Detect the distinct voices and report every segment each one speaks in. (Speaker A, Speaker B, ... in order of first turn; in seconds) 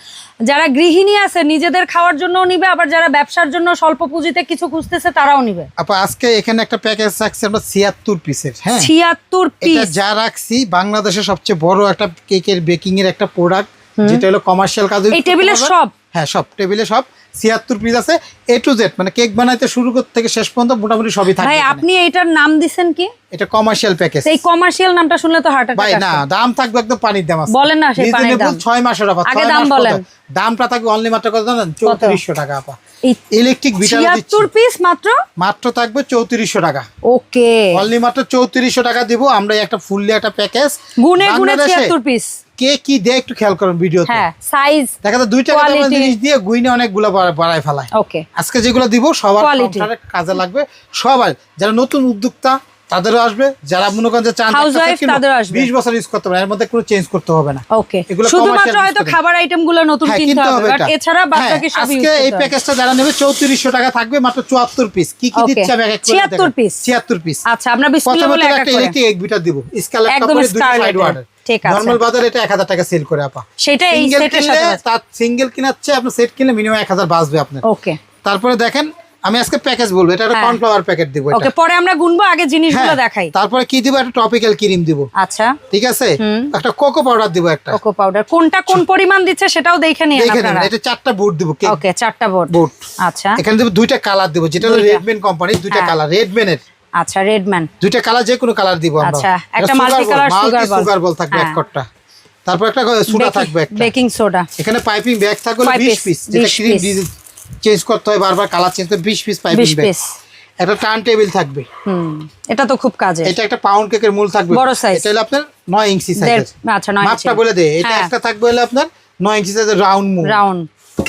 Speaker A: 0.5-5.7, 8.8-9.9, 14.0-14.2, 15.1-15.9, 21.4-23.1, 24.2-26.2, 27.5-28.6, 29.3-30.0, 31.9-32.2, 33.8-35.2, 37.1-37.8, 41.0-42.3, 44.1-44.9, 45.5-46.1, 47.9-48.3, 49.4-49.9, 54.5-55.7, 57.7-62.5, 65.4-66.8, 67.5-69.0, 70.1-72.0, 73.6-74.8, 77.6-78.0, 80.3-80.6, 81.3-83.3, 85.2-85.6, 86.2-86.5, 87.7-90.7, 91.7-93.4, 94.6-95.0, 97.0-97.7, 99.0-101.6, 103.1-104.5, 105.6-107.0, 109.5-110.1, 111.8-113.3, 114.5-115.1, 116.2-118.1, 120.2-120.7
Speaker B: 5.8-8.9, 9.6-21.9, 23.3-24.4, 25.8-32.8, 33.3-34.5, 35.4-36.9, 37.7-41.9, 42.6-44.2, 45.0-59.2, 60.1-67.4, 68.1-77.6, 78.2-81.5, 82.7-85.1, 85.7-87.8, 90.2-91.8, 92.5-92.8, 93.4-96.6, 97.8-101.9, 102.5-103.9, 104.6-107.1, 107.6-109.9, 110.6-111.7, 113.2-116.5, 117.0-120.4